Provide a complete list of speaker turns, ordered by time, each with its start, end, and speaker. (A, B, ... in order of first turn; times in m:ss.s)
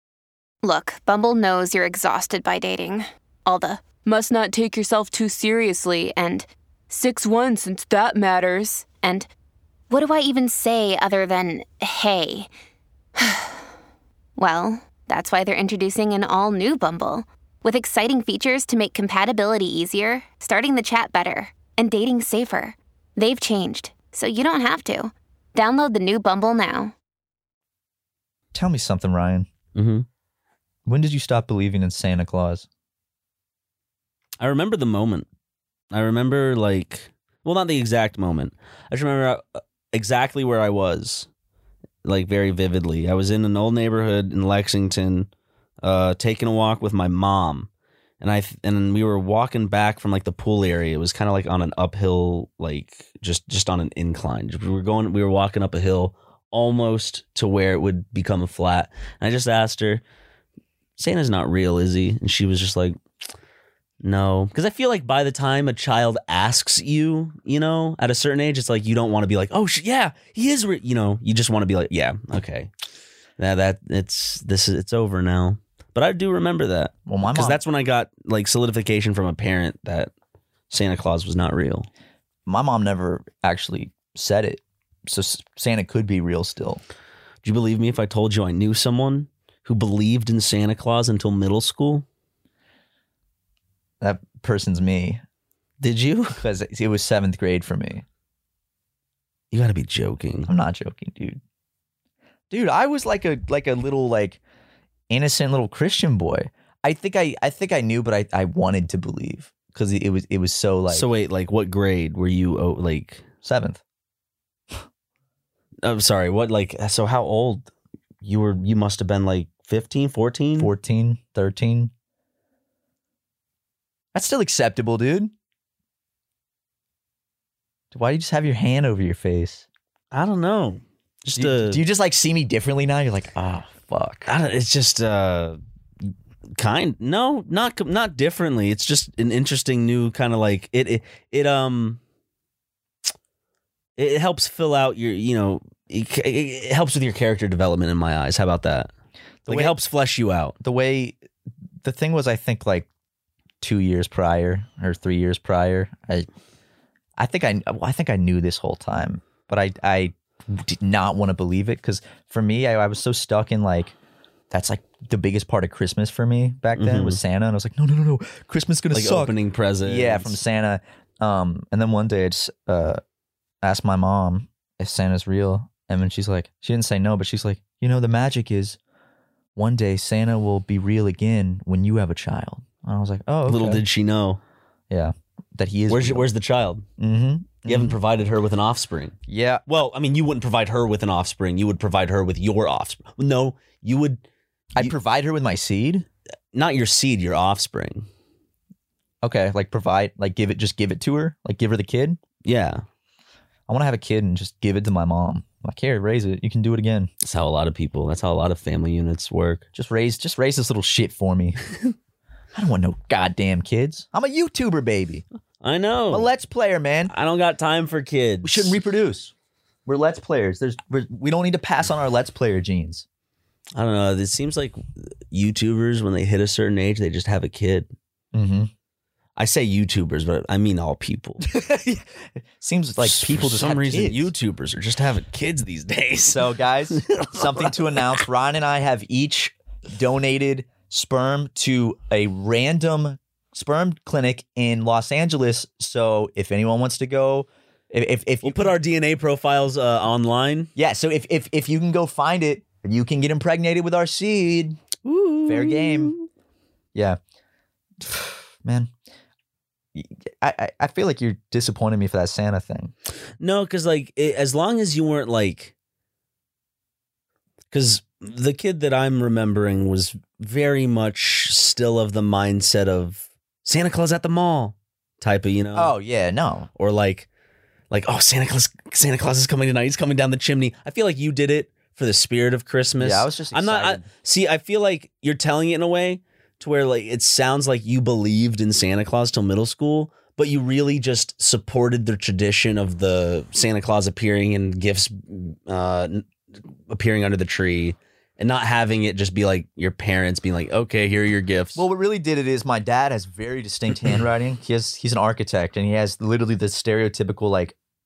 0:00.6-0:09.3 A
0:09.9-0:12.5 A
0:13.2-0:13.5 A
0:14.4-0:26.9 A
0:28.5-0:29.5 B
0:29.7-0:30.0 C
0:30.8-0:32.7 B
0:34.4-0:35.3 C
0:35.9-0:41.3 C
0:42.0-0:45.3 C
0:45.8-0:47.7 C
0:48.2-1:00.0 C
1:01.0-1:03.0 C
1:04.0-1:12.7 C
1:13.4-1:20.1 C
1:17.0-1:17.6 B
1:20.7-1:21.9 C
1:22.4-1:26.8 B
1:27.4-1:32.0 C
1:34.0-1:35.2 B
1:35.8-1:36.4 C
1:36.4-1:38.0 B
1:39.5-1:40.5 C
1:40.5-1:41.4 B
1:42.5-1:44.4 B
1:45.1-1:51.1 B
1:50.9-1:53.2 C
1:53.4-1:53.8 B
1:55.8-1:57.7 C
1:58.2-2:00.7 C
2:00.6-2:01.9 B
2:04.1-2:05.3 B
2:07.9-2:09.6 B
2:10.1-2:11.8 C
2:11.3-2:14.3 B
2:14.3-2:15.6 C
2:16.6-2:22.0 C
2:24.0-2:28.9 C
2:29.4-2:30.6 C
2:29.5-2:29.7 B
2:30.6-2:31.2 B
2:31.8-2:32.9 B
2:33.6-2:36.3 B
2:37.2-2:43.9 B
2:44.5-2:53.0 B
2:46.8-2:47.2 C
2:48.9-2:50.4 C
2:53.6-2:58.8 B
2:59.6-3:03.8 B
3:03.4-3:04.4 C
3:04.9-3:06.3 B
3:05.9-3:06.8 C
3:07.0-3:08.0 B
3:07.6-3:09.2 C
3:09.3-3:09.6 B
3:09.7-3:14.2 C
3:14.8-3:16.0 B
3:16.5-3:18.1 C
3:19.2-3:22.2 B
3:22.4-3:22.8 C
3:23.7-3:27.1 B
3:27.2-3:29.6 C
3:29.7-3:31.6 B
3:32.5-3:35.2 B
3:35.6-3:36.3 C
3:36.1-3:37.1 B
3:37.1-3:38.8 C
3:38.4-3:39.3 B
3:39.8-3:43.0 B
3:43.8-3:47.9 C
3:48.3-3:48.7 B
3:49.4-3:51.4 C
3:51.4-3:54.3 B
3:53.0-3:58.2 C
3:56.3-4:08.8 B
4:08.4-4:10.7 C
4:10.8-4:14.8 B
4:15.0-4:16.3 C
4:15.4-4:16.1 B
4:18.0-4:18.9 B
4:19.9-4:22.9 B
4:23.4-4:25.7 C
4:27.7-4:35.9 C
4:35.7-4:36.7 B
4:36.8-4:37.3 C
4:37.9-4:56.3 C
4:43.0-4:44.0 B
4:56.9-5:01.8 C
5:01.8-5:07.7 B